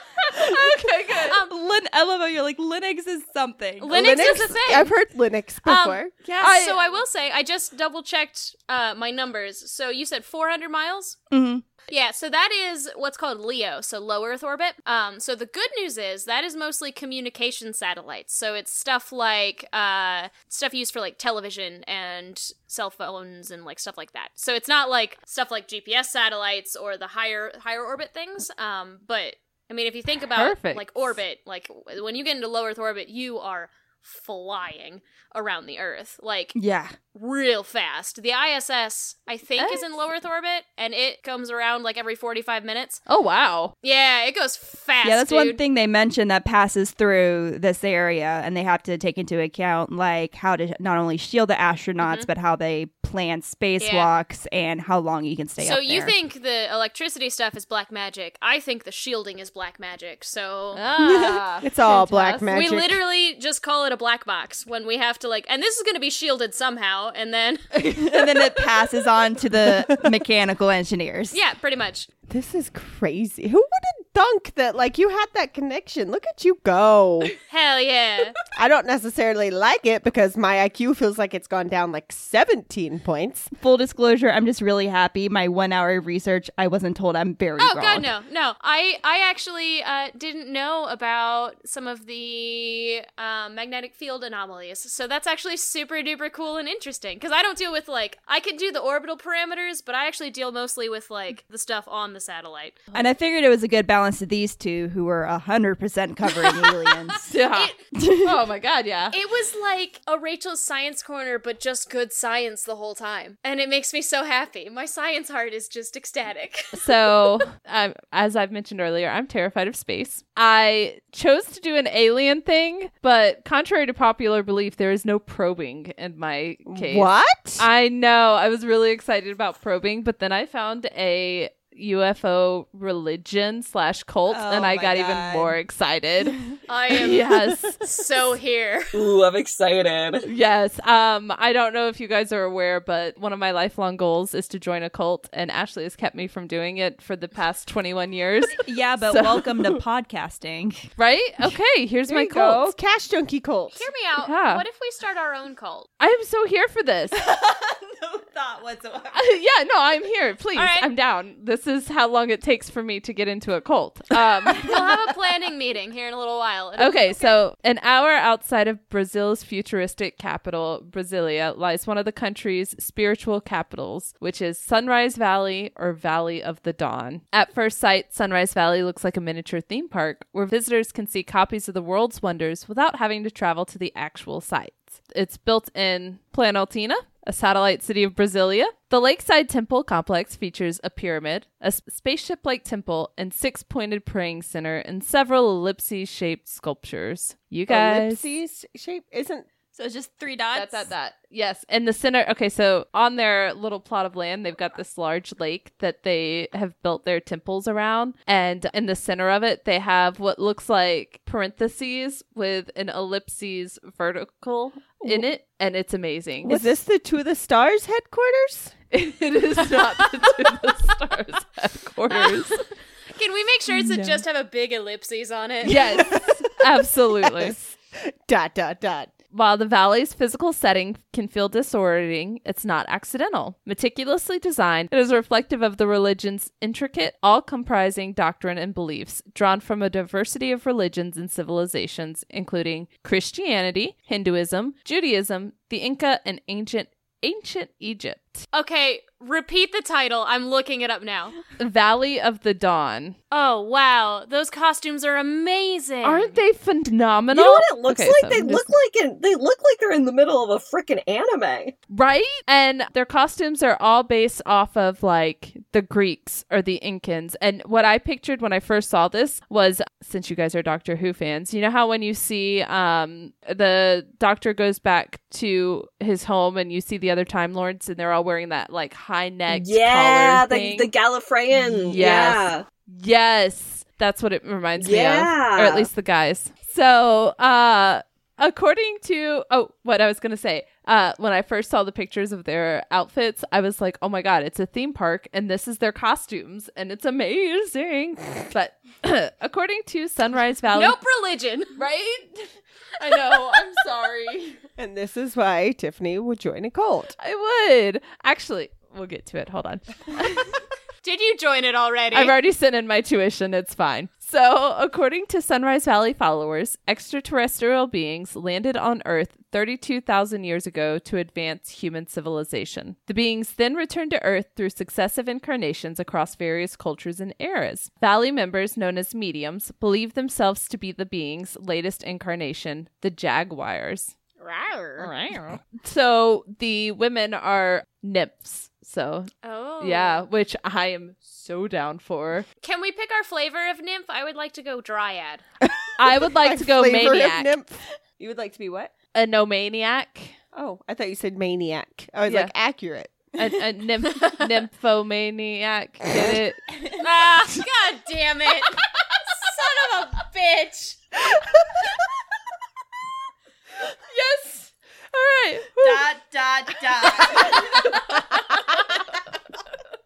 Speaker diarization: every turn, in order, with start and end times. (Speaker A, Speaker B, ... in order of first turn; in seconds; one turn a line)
Speaker A: 0.3-1.4
Speaker B: 1.5-4.4
Speaker C: 3.8-4.9
Speaker D: 3.9-6.1
Speaker C: 5.6-11.2
Speaker A: 6.4-6.8
Speaker B: 11.3-11.6
Speaker C: 11.9-36.5
Speaker A: 30.3-30.9
Speaker B: 36.5-36.9
Speaker C: 37.1-43.0
Speaker A: 39.6-39.9
Speaker A: 43.1-43.7
Speaker C: 43.8-45.6
Speaker B: 45.0-56.1
Speaker C: 52.0-52.3
Speaker C: 53.8-54.1
Speaker C: 55.6-60.9
Speaker A: 60.7-62.5
Speaker D: 61.1-63.0
Speaker C: 62.5-68.0
Speaker B: 67.9-71.3
Speaker C: 71.3-72.1
Speaker D: 72.3-77.3
Speaker C: 77.5-78.4
Speaker D: 78.5-83.5
Speaker B: 83.5-88.1
Speaker C: 87.6-102.8
Speaker B: 102.9-107.3
Speaker C: 106.4-107.8
Speaker A: 107.2-109.2
Speaker B: 107.9-108.5
Speaker C: 109.1-116.9
Speaker A: 116.7-137.8
Speaker D: 126.7-127.7
Speaker B: 134.3-135.6
Speaker C: 136.7-139.0
Speaker E: 138.9-140.2
Speaker A: 140.2-149.8
Speaker B: 148.6-150.9
Speaker A: 151.0-152.7
Speaker D: 152.0-153.8
Speaker C: 153.7-155.9
Speaker A: 154.2-154.6
Speaker A: 156.0-157.1
Speaker B: 157.1-159.2
Speaker A: 159.1-165.0
Speaker C: 160.5-160.9
Speaker C: 164.6-167.3
Speaker A: 166.8-198.3
Speaker D: 197.7-199.5
Speaker B: 199.7-200.9
Speaker A: 200.5-216.7
Speaker D: 216.4-218.7
Speaker A: 218.9-222.6
Speaker C: 222.1-222.6
Speaker C: 223.1-225.8
Speaker A: 223.7-224.2
Speaker A: 225.6-227.6
Speaker D: 225.7-226.6
Speaker D: 227.2-229.1
Speaker A: 229.3-248.4
Speaker C: 248.5-251.3
Speaker A: 251.6-253.2
Speaker C: 253.3-256.4
Speaker A: 256.0-258.7
Speaker E: 257.3-261.7
Speaker A: 261.9-280.9
Speaker E: 279.5-282.6
Speaker A: 281.5-301.0
Speaker E: 284.8-285.9
Speaker C: 300.7-301.8
Speaker A: 301.8-304.6
Speaker D: 304.8-307.1
Speaker A: 307.2-310.6
Speaker C: 311.0-312.3
Speaker A: 312.1-334.1
Speaker D: 334.4-335.0
Speaker A: 335.0-342.4
Speaker C: 339.4-340.2
Speaker C: 342.6-345.4
Speaker D: 345.6-348.9
Speaker A: 346.0-347.5
Speaker A: 349.1-350.4
Speaker D: 350.5-353.5
Speaker A: 352.2-352.5
Speaker A: 353.4-356.7
Speaker C: 357.0-361.0
Speaker A: 364.1-366.1
Speaker B: 365.8-367.9
Speaker A: 367.1-368.8